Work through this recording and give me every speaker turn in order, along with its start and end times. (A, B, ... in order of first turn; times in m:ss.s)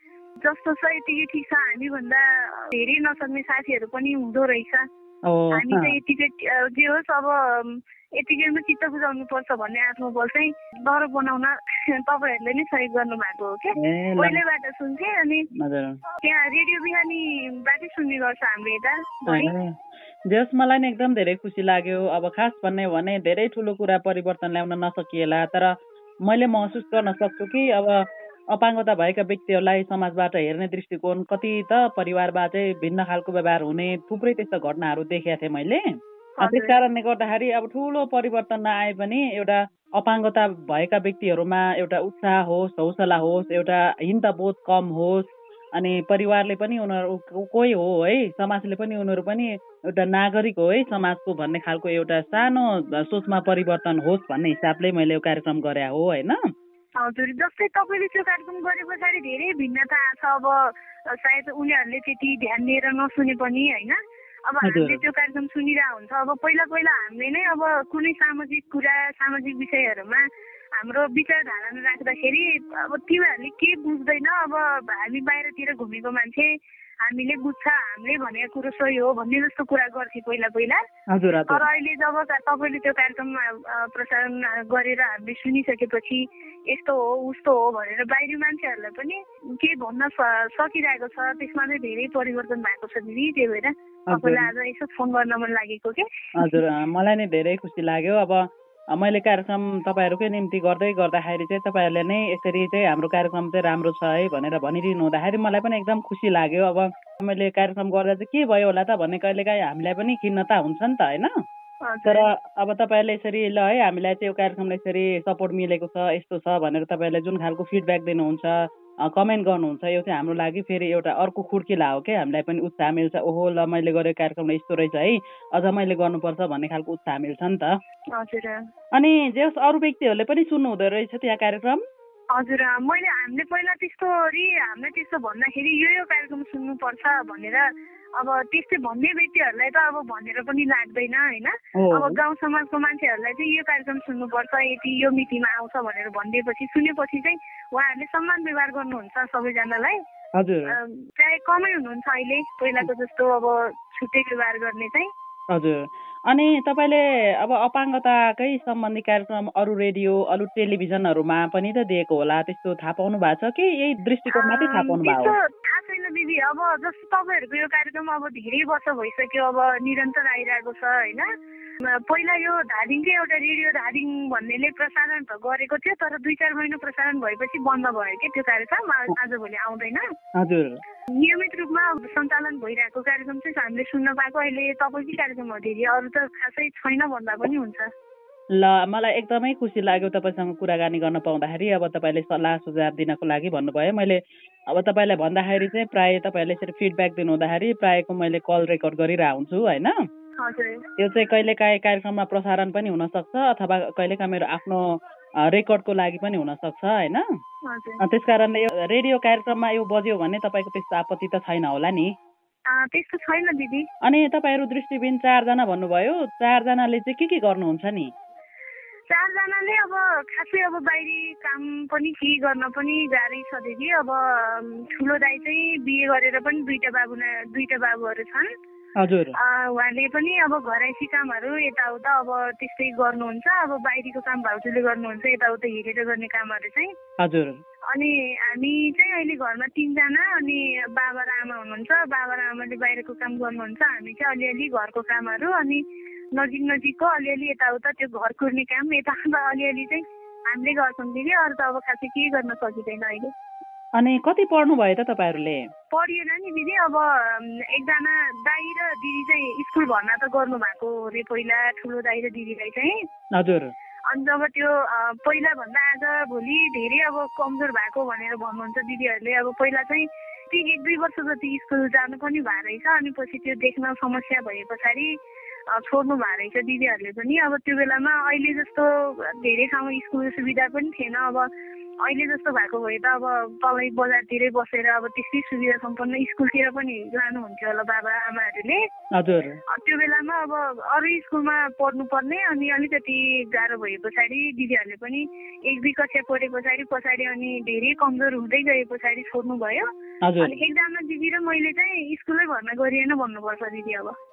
0:00.4-0:04.8 A
0:05.2-0:06.0 B
0:05.5-0:15.4 A
0:13.8-0:14.4 B
0:15.6-0:16.0 B
0:16.2-0:19.5 A
0:19.3-0:19.8 B
0:20.3-0:56.4 B
0:36.4-0:36.8 A
0:57.0-1:10.2 A
1:04.6-1:05.0 B
1:10.8-1:20.8 A
1:21.1-1:21.6 B
1:21.5-1:36.6 A
1:34.1-1:34.5 B
1:36.4-1:51.4 B
1:51.8-1:52.3 A
1:52.1-2:07.8 B
2:08.1-2:08.6 A
2:08.9-2:11.8 B
2:12.3-2:30.0 A
2:21.8-2:22.2 B
2:30.4-2:30.7 B
2:30.7-2:35.1 A
2:35.5-2:45.3 B
2:44.3-2:51.3 A
2:51.8-3:00.1 A
3:00.4-3:00.8 B
3:01.2-3:07.9 A
3:08.5-3:20.0 B
3:20.4-3:20.8 A
3:21.0-3:27.3 B
3:27.6-3:28.0 A
3:28.0-3:32.1 B
3:32.7-3:33.9 A
3:34.0-3:38.1 B
3:39.1-3:48.5 A
3:49.0-3:49.3 B
3:49.4-3:56.9 A
3:57.2-3:57.6 B
3:57.9-4:13.3 A
4:14.0-4:15.7 B
4:15.9-4:23.0 A
4:23.3-4:23.7 B
4:24.1-4:35.1 A
4:35.7-4:41.5 A
4:42.0-4:48.8 A
4:49.1-4:49.6 B
4:49.7-4:59.9 A
5:00.2-5:00.6 B
5:00.4-5:04.1 A